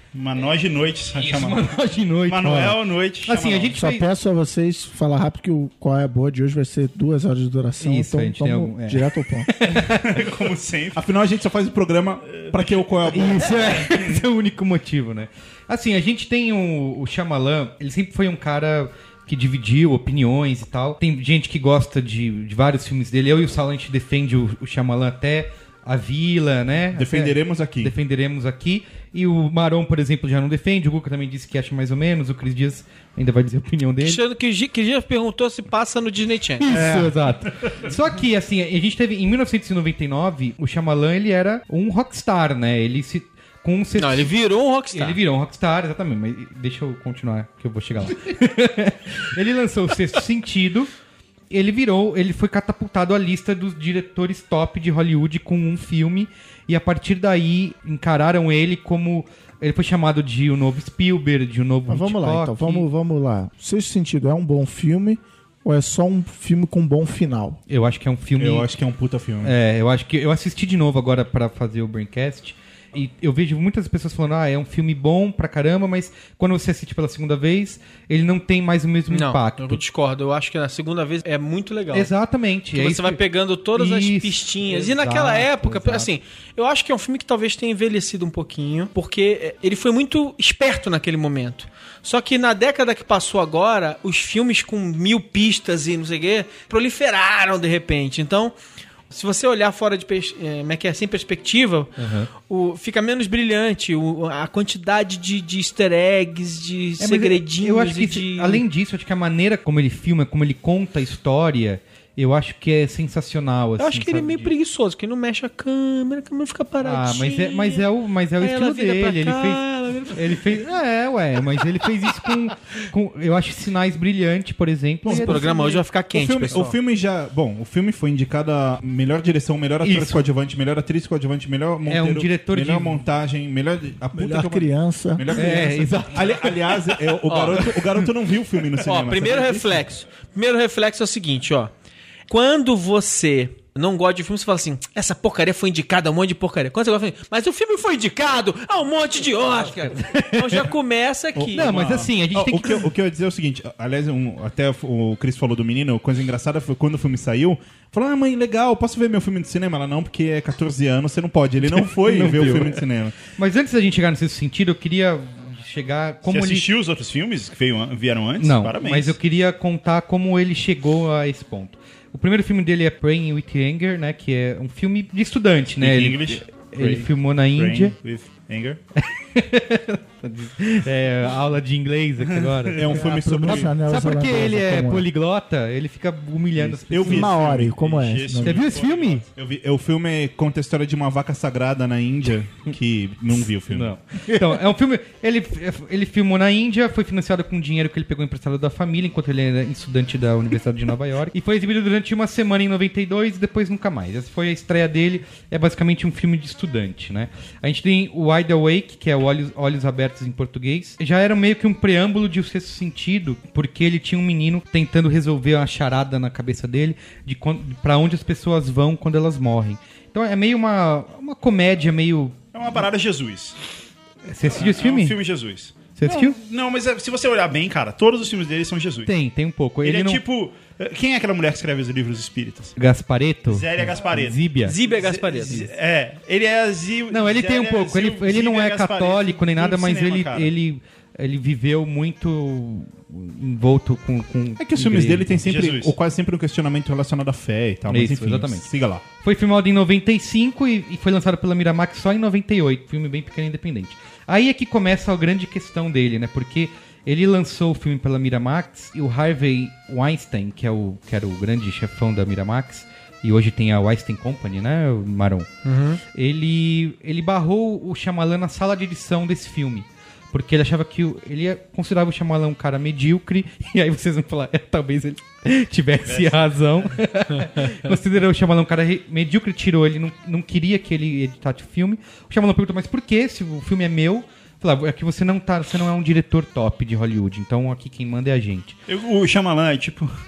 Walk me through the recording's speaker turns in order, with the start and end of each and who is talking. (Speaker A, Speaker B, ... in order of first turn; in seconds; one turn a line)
Speaker A: 0.1-1.7
Speaker B: 1.1-4.1
Speaker A: 2.3-3.8
Speaker C: 3.7-9.5
Speaker B: 7.8-10.2
Speaker A: 9.8-11.0
Speaker D: 10.9-13.7
Speaker A: 12.3-14.1
Speaker B: 13.1-34.2
Speaker D: 26.9-27.9
Speaker E: 34.0-36.9
Speaker B: 36.6-44.3
Speaker E: 44.0-45.2
Speaker B: 44.9-50.9
Speaker B: 51.5-62.9
Speaker C: 61.9-67.6
Speaker B: 67.7-68.7
Speaker D: 68.4-69.5
Speaker B: 69.4-79.8
Speaker E: 79.1-82.1
Speaker B: 81.9-86.1
Speaker E: 82.7-98.5
Speaker E: 99.1-108.6
Speaker B: 102.0-102.3
Speaker B: 107.0-114.5
Speaker E: 113.8-120.6
Speaker B: 116.8-125.5
Speaker C: 125.1-125.6
Speaker E: 125.1-126.8
Speaker D: 126.1-139.8
Speaker B: 129.8-130.2
Speaker B: 131.8-133.0
Speaker C: 134.1-135.5
Speaker B: 135.3-136.6
Speaker E: 137.2-137.8
Speaker E: 138.8-141.7
Speaker E: 142.3-151.7
Speaker B: 149.9-150.7
Speaker D: 151.3-163.1
Speaker B: 151.5-152.9
Speaker B: 161.6-162.8
Speaker B: 163.3-166.7
Speaker A: 166.2-169.2
Speaker B: 168.4-177.9
Speaker A: 175.8-178.8
Speaker B: 178.9-187.3
Speaker A: 182.4-182.9
Speaker D: 182.7-183.7
Speaker C: 182.9-185.1
Speaker D: 186.6-187.8
Speaker C: 187.0-188.7
Speaker A: 187.4-189.3
Speaker B: 188.4-189.2
Speaker D: 189.3-193.9
Speaker B: 193.7-222.4
Speaker A: 222.5-223.6
Speaker B: 224.3-225.2
Speaker A: 224.4-229.1
Speaker B: 226.0-226.4
Speaker B: 229.1-230.2
Speaker A: 229.8-232.7
Speaker B: 232.8-234.8
Speaker A: 233.5-240.5
Speaker E: 234.6-235.7
Speaker B: 237.1-245.5
Speaker D: 244.6-249.0
Speaker A: 245.4-245.9
Speaker B: 247.9-248.7
Speaker B: 249.2-265.5
Speaker E: 265.6-266.0
Speaker B: 266.1-288.8
Speaker A: 276.0-276.5
Speaker A: 288.9-290.1